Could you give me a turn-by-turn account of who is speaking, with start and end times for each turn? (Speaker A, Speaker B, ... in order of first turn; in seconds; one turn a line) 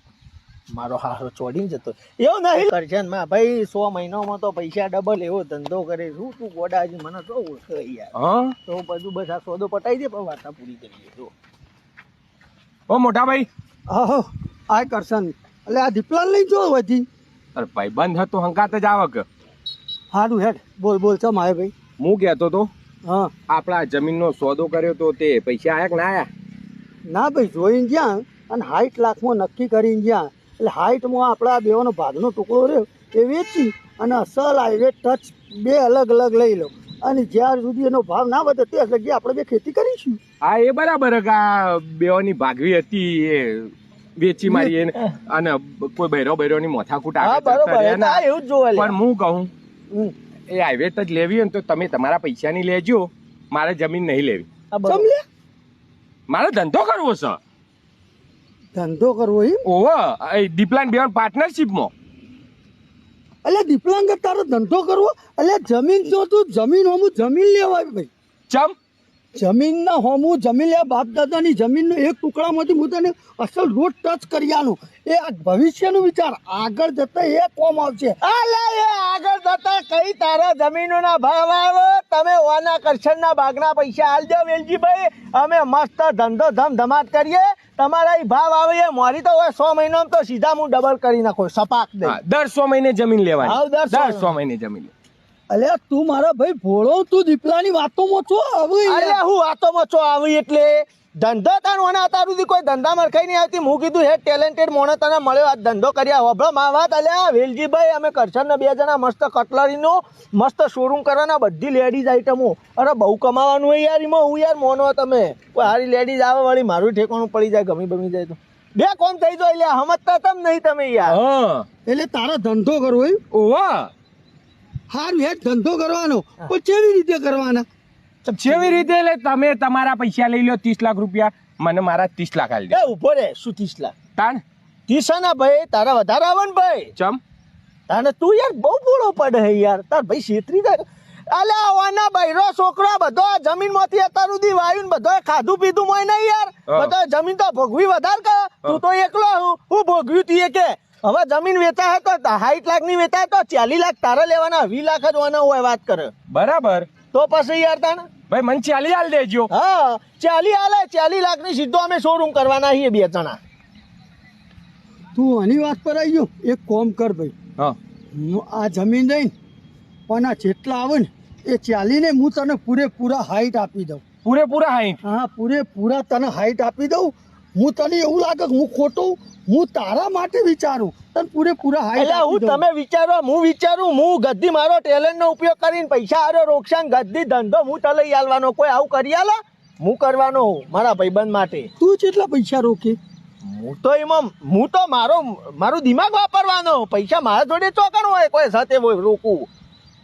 Speaker A: 0.7-8.1
Speaker B: 8.2-8.5
Speaker A: 8.7-11.3
Speaker B: 12.9-13.5
Speaker C: 13.9-17.1
Speaker B: 17.6-19.2
Speaker C: 20.1-21.7
Speaker B: 22.0-22.7
Speaker C: 23.1-23.3
Speaker B: 23.5-26.3
Speaker C: 27.1-40.2
Speaker B: 40.4-49.5
Speaker A: 47.2-49.0
Speaker B: 50.5-54.5
Speaker A: 54.7-55.1
Speaker C: 54.9-55.2
Speaker B: 56.3-57.4
Speaker C: 58.7-59.6
Speaker B: 59.6-61.9
Speaker C: 63.4-68.1
Speaker B: 68.5-68.8
Speaker C: 69.4-78.2
Speaker A: 78.2-92.2
Speaker B: 92.0-94.9
Speaker A: 93.4-94.3
Speaker C: 95.5-99.2
Speaker A: 98.9-121.2
Speaker B: 121.1-121.7
Speaker C: 121.9-123.2
Speaker B: 123.3-123.9
Speaker C: 124.9-127.7
Speaker B: 128.2-132.8
Speaker A: 132.7-133.9
Speaker A: 134.9-136.9
Speaker A: 137.9-156.1
Speaker B: 156.3-156.9
Speaker A: 157.1-158.1
Speaker B: 158.3-159.5
Speaker A: 159.5-163.4
Speaker C: 165.2-167.3
Speaker C: 168.1-169.3
Speaker C: 170.1-174.0
Speaker B: 174.2-175.0
Speaker C: 175.0-182.6
Speaker A: 182.0-191.7
Speaker C: 191.8-193.0
Speaker A: 193.4-199.5